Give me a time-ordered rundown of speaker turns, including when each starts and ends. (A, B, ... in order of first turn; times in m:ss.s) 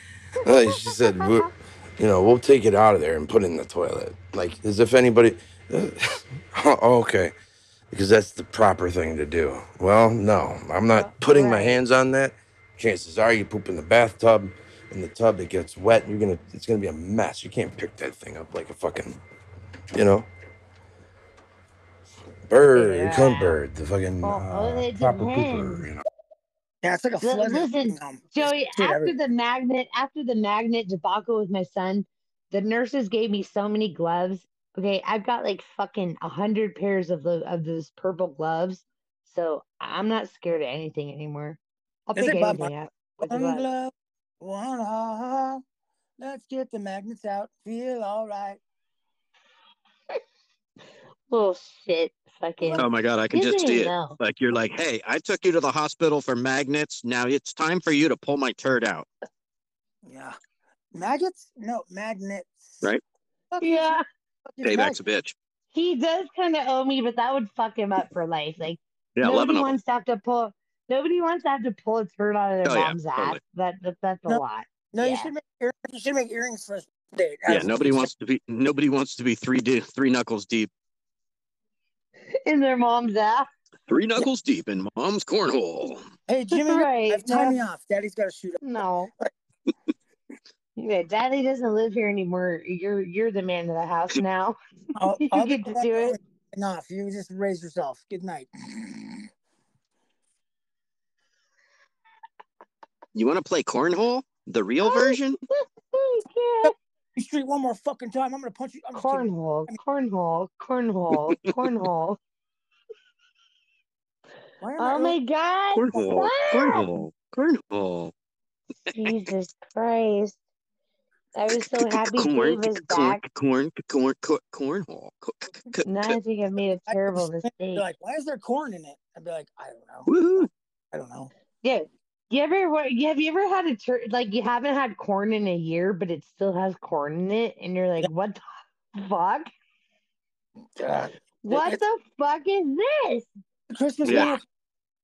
0:00.4-0:07.3 A
0:07.9-0:19.2 A
0:10.9-0:11.8 B
0:19.9-0:20.3 A
0:22.5-0:26.0 A
0:22.7-0:23.6 B
0:24.2-0:25.9 B
0:26.8-0:29.1 C
0:27.2-0:43.7 B
0:42.1-0:42.7 C
0:43.2-0:45.6 C
0:46.2-0:48.6 C
0:51.3-0:54.2 B
0:52.6-0:52.9 C
0:52.8-0:59.1 D
1:00.1-1:00.4 C
1:00.9-1:02.9 C
1:03.5-1:03.9 C
1:03.6-1:04.0 B
1:04.5-1:05.0 C
1:04.6-1:05.3 D
1:05.7-1:15.3 B
1:09.2-1:09.8 D
1:12.6-1:13.4 D
1:14.3-1:18.1 C
1:17.5-1:20.7 D
1:22.4-1:23.5 B
1:23.9-1:26.0 D
1:26.3-1:28.6 C
1:26.5-1:27.6 B
1:28.6-1:29.1 B
1:30.8-1:34.6 B
1:35.0-1:39.3 C
1:35.2-1:36.2 B
1:43.1-1:45.4 D
1:44.8-1:45.2 B
1:45.9-1:46.7 B
1:46.6-1:49.8 C
1:48.9-1:52.2 B
1:54.6-1:55.2 C
1:54.8-1:56.9 B
1:55.7-1:58.1 D
1:55.9-1:56.3 C
1:58.9-1:59.2 D
1:58.9-2:00.4 B
2:01.4-2:03.2 B
2:01.8-2:06.2 D
2:05.8-2:07.8 B
2:06.9-2:11.3 C
2:10.1-2:10.5 D
2:11.6-2:18.4 B
2:19.0-2:19.5 B
2:20.8-2:21.8 C
2:21.4-2:23.3 B
2:23.7-2:24.4 C
2:24.0-2:24.4 D